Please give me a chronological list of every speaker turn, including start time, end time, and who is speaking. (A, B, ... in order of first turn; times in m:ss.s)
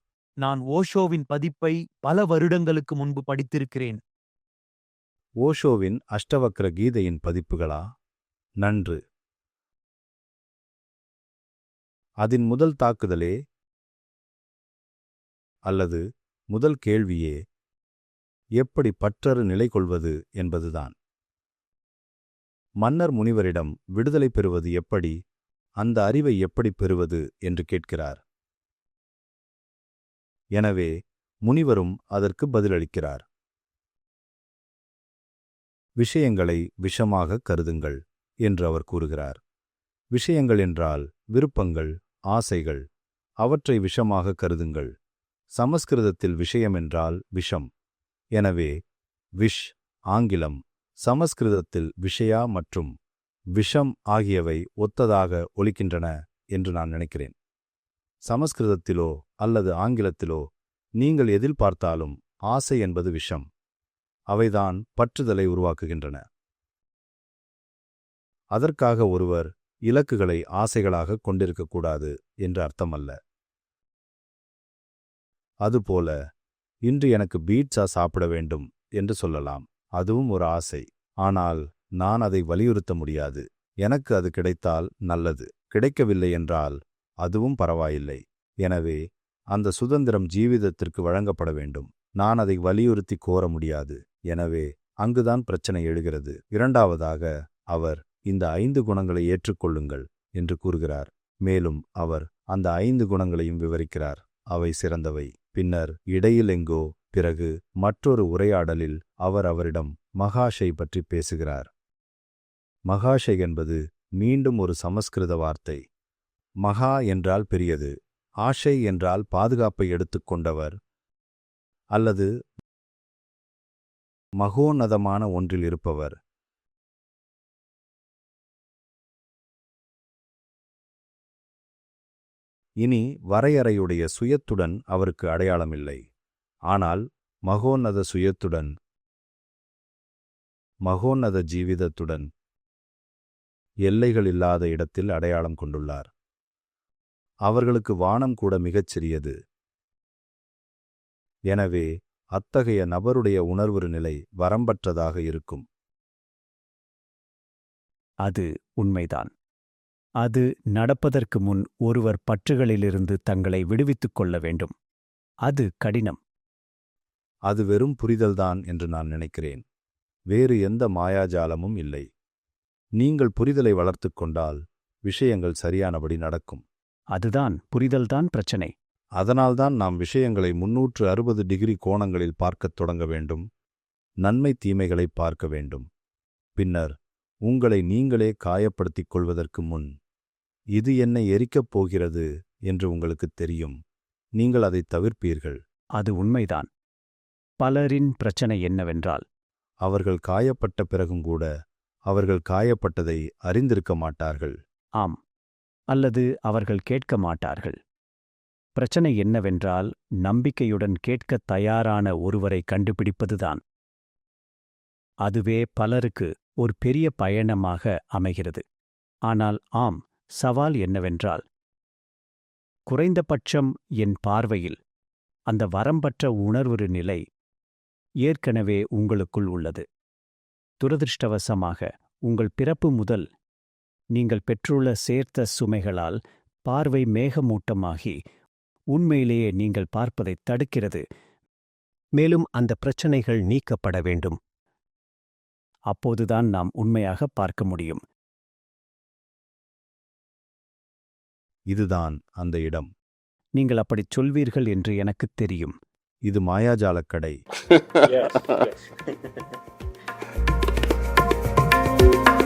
0:00.4-0:04.0 A
0:05.4-0:07.8 B
0:08.6-0:09.0 B
0:12.2-0:13.3 B
0:15.7-0:17.4 B
0:18.6-0:20.9 B
0:22.8-0:25.2 B
0:25.8-0:28.2 B
0:30.5-0:30.9 B
0:31.4-0:33.2 B
0:36.0-0:39.4 B
0:40.1-0:42.8 B
0:43.4-0:44.9 B
0:45.6-0:47.7 B
0:48.3-0:48.7 B
0:49.4-0:52.9 B
0:53.5-0:57.3 B
0:58.3-1:00.4 B
1:01.0-1:03.4 B
1:04.3-1:06.2 B
1:08.5-1:13.2 B
1:15.6-1:16.2 B
1:16.8-1:29.0 B
1:29.5-1:51.7 B
1:52.9-1:55.8 B
1:56.6-2:00.7 B
2:01.9-2:02.3 B
2:04.4-2:06.1 B
2:12.8-2:16.0 B
2:16.7-2:18.7 B
2:20.8-2:22.3 B
2:23.8-2:26.1 B
2:27.4-2:29.3 B
2:31.5-2:35.6 B
2:38.2-2:39.3 C
2:40.2-2:44.7 C
2:45.4-2:46.2 C
2:47.5-2:49.6 B
2:50.3-2:52.0 B
2:53.0-2:56.6 B
2:57.1-2:58.7 C
2:59.2-3:03.4 B
3:04.2-3:05.8 B
3:06.6-3:06.9 B
3:07.4-3:09.9 B
3:10.7-3:13.8 B
3:14.4-3:15.6 B
3:16.0-3:16.7 C
3:17.6-3:19.2 C
3:19.8-3:21.5 B
3:22.1-3:24.6 B
3:25.9-3:27.8 C
3:28.8-3:33.6 C
3:35.2-3:38.6 C
3:39.3-3:41.4 C
3:42.9-3:44.8 C
3:45.5-3:47.2 C
3:48.2-3:49.8 C
3:50.8-3:53.3 C
3:54.1-3:58.2 C
3:58.9-4:01.0 C
4:02.2-4:04.4 C
4:05.9-4:08.0 C
4:11.7-4:12.9 B
4:13.6-4:15.7 C
4:16.3-4:17.4 B